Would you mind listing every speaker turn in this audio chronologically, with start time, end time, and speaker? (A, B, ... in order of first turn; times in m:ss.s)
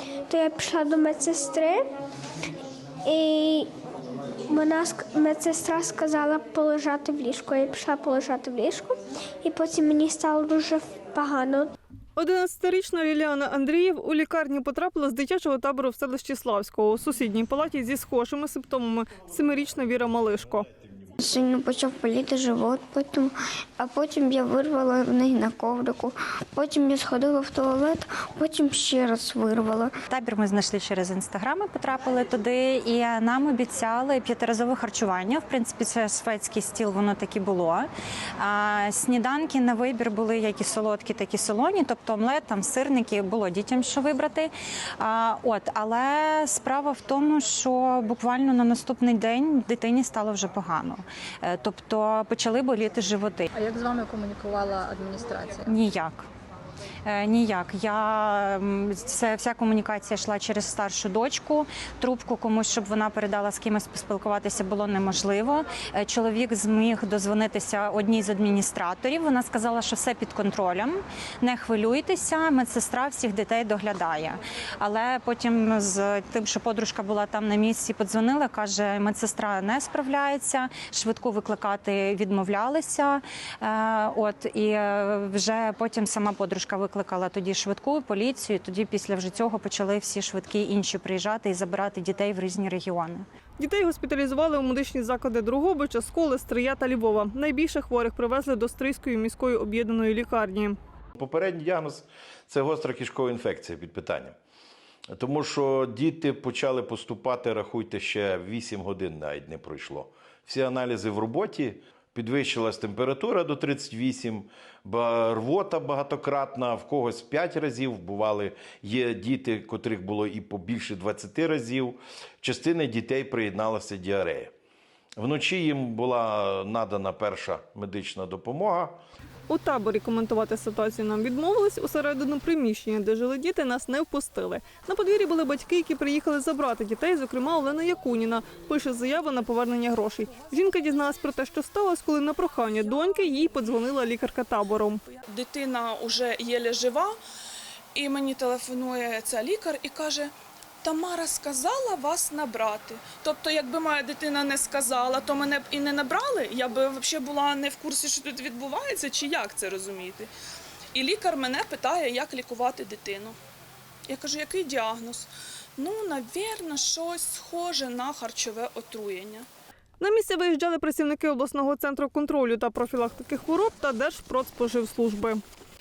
0:00.3-0:01.8 A
0:03.0-0:03.7 A
0:04.5-0:11.7 A
0:12.2-0:20.7 B
0:21.2-0:30.0 C
0:30.1-0:53.5 D
0:53.6-0:55.7 E
0:55.6-0:56.2 D
0:57.0-1:33.2 D
1:33.6-1:40.8 B
1:41.2-1:44.4 F
1:45.1-2:04.5 F
2:05.2-2:09.0 F
2:09.5-2:25.0 B
2:25.2-2:27.2 G
2:28.0-2:30.3 G
2:30.8-2:40.3 G
2:40.9-2:43.4 G
2:44.1-2:45.3 G
2:45.8-2:49.5 G
2:50.0-2:55.4 B